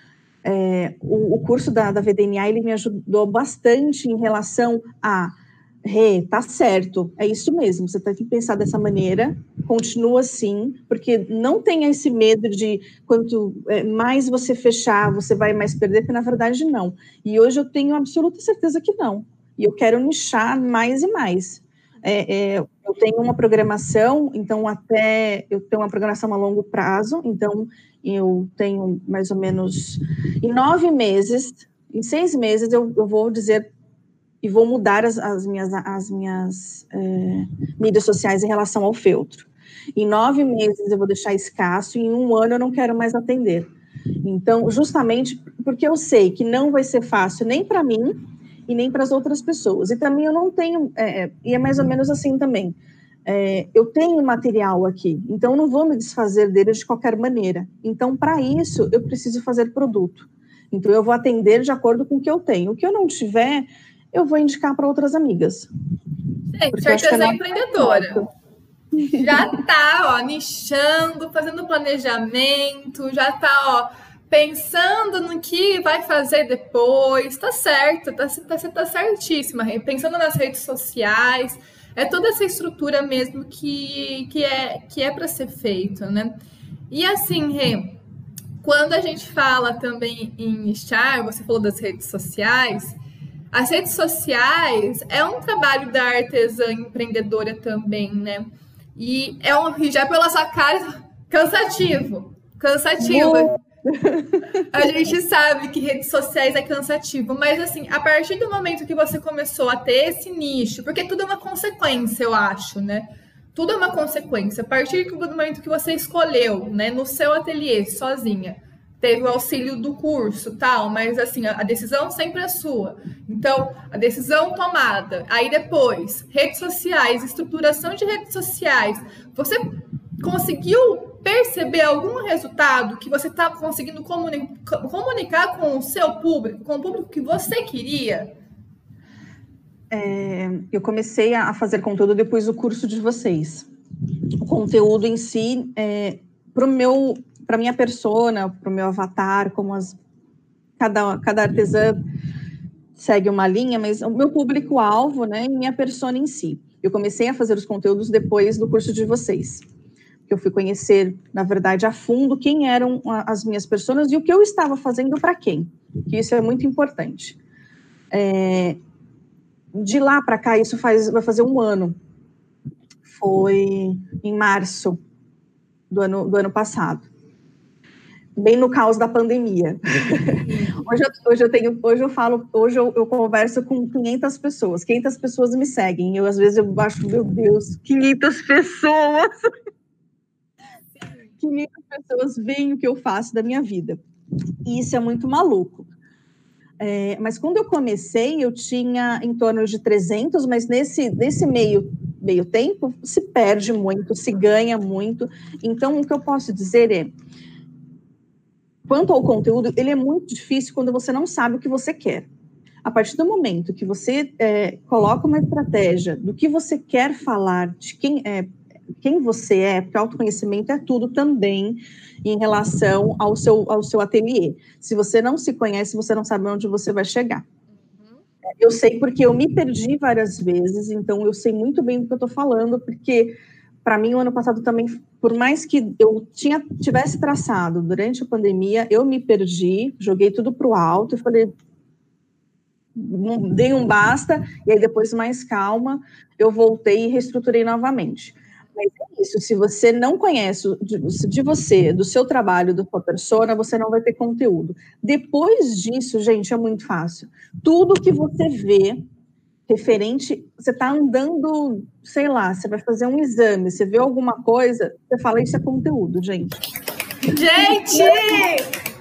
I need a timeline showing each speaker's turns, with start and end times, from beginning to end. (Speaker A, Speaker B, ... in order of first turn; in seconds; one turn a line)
Speaker A: 0.4-33.7
Speaker A: 34.4-43.7
Speaker A: 44.2-48.1
Speaker A: 48.7-65.7
Speaker B: 66.5-68.2
Speaker A: 66.7-68.3
Speaker A: 69.0-69.4
Speaker B: 69.1-86.3
Speaker B: 86.9-88.0
Speaker B: 88.6-93.0
Speaker B: 93.5-103.5
Speaker A: 103.0-104.9
Speaker B: 104.7-138.3
Speaker A: 139.9-143.7
Speaker A: 144.4-149.9
Speaker A: 150.8-151.9
Speaker A: 152.9-159.6
Speaker A: 160.3-167.4
Speaker A: 168.1-168.8
Speaker A: 169.7-171.9
Speaker A: 173.1-175.0
Speaker A: 175.9-177.1
Speaker A: 178.4-189.3
Speaker B: 180.5-180.7
Speaker A: 191.4-194.0
Speaker A: 194.6-195.9
Speaker A: 196.8-207.1
Speaker A: 208.9-212.3
Speaker A: 212.8-218.5
Speaker A: 219.0-227.4
Speaker A: 228.6-241.5
Speaker A: 242.9-259.0
Speaker A: 259.7-266.6
Speaker B: 267.3-268.7
Speaker A: 267.6-268.6